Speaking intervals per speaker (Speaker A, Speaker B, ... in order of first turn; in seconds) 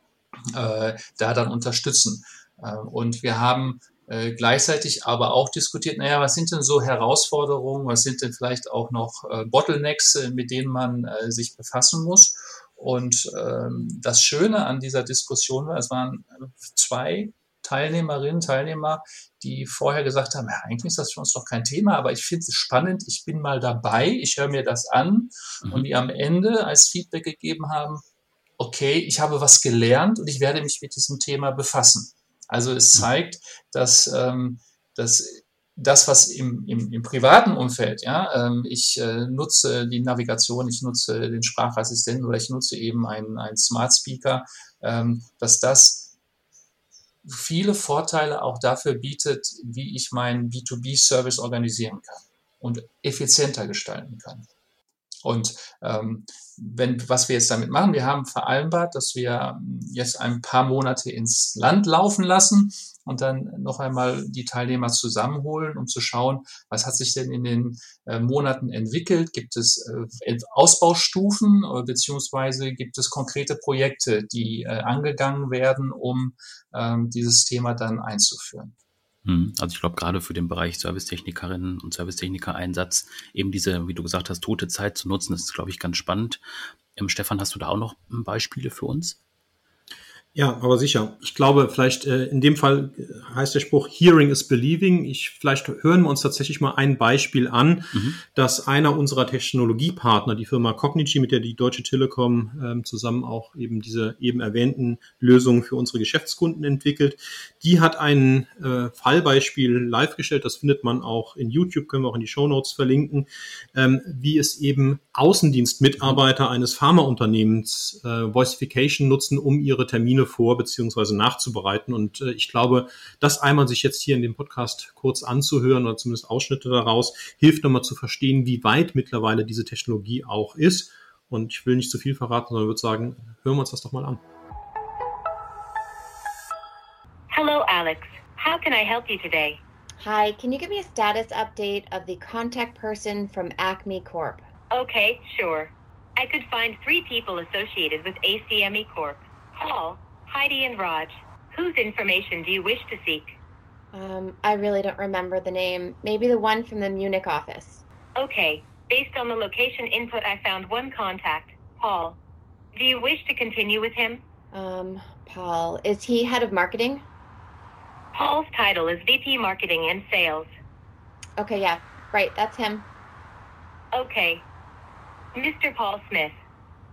Speaker A: 0.5-28.0, 28.6-46.1, 47.2-54.5, 55.2-78.7
Speaker B: 79.2-86.4, 87.0-89.2
Speaker C: 90.3-134.2
Speaker D: 137.3-139.6, 144.7-153.3, 158.2-162.2, 162.7-164.2, 168.1-170.5, 173.9-174.4, 175.3-176.3
Speaker E: 140.0-144.4, 153.9-157.8, 164.5-167.0, 171.4-172.8